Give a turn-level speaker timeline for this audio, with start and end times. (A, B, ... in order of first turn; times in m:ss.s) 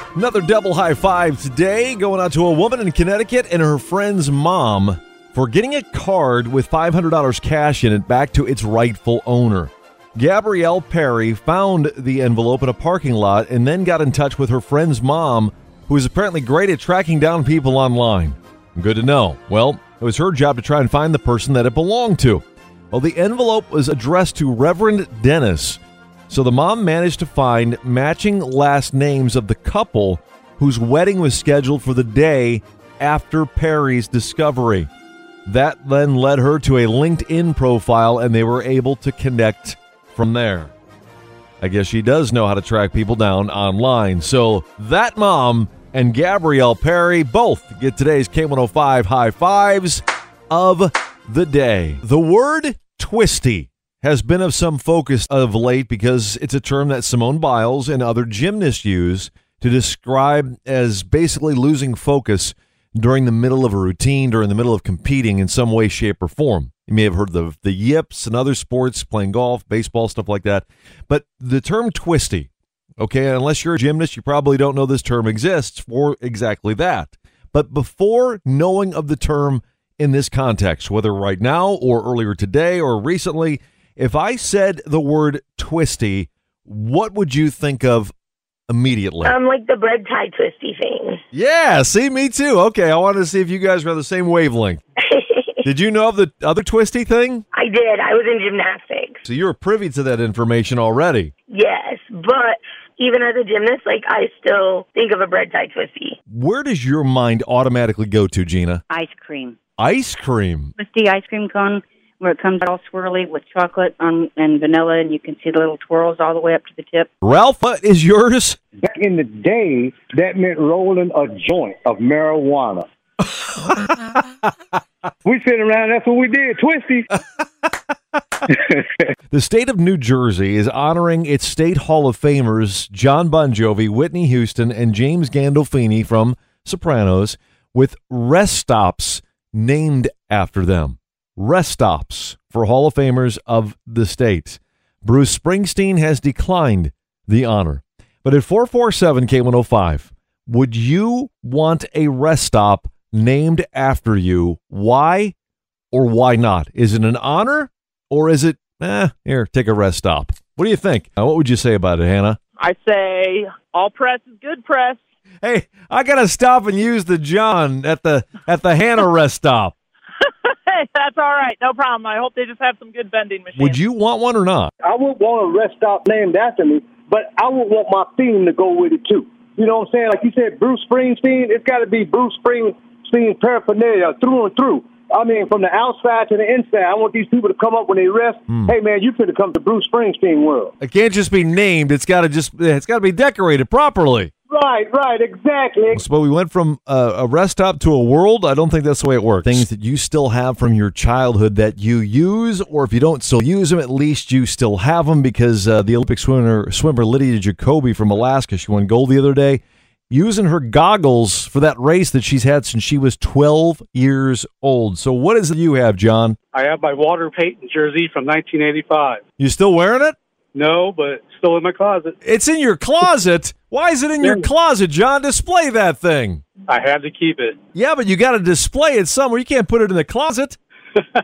0:00.1-0:34.9 A
0:35.4-0:40.7 A
0:41.6-1:28.1 A
1:28.7-1:29.4 A
1:29.2-1:31.2 B
1:31.3-1:34.8 A
1:35.1-1:35.5 B
1:35.6-1:37.4 A
1:37.5-1:39.2 B
1:39.2-1:41.3 A
1:41.5-1:46.2 B
1:46.3-1:48.8 A
1:48.9-1:49.3 C
1:49.8-1:50.7 A
1:50.8-1:57.1 C
1:57.2-1:58.6 A
1:58.8-2:02.9 D
2:05.2-2:07.1 D
2:09.3-2:35.3 A
2:35.9-2:42.4 A
2:42.6-2:45.0 E
2:45.4-2:49.7 A
2:50.4-2:53.8 E
2:53.6-2:54.7 A
2:54.8-3:10.7 D
3:10.8-3:14.3 A
3:14.5-3:16.0 D
3:15.9-3:36.4 A
3:36.5-3:39.2 F
3:39.4-3:40.2 A
3:40.5-3:42.1 F
3:42.2-3:46.4 A
3:46.7-3:47.6 F
3:47.7-3:50.6 A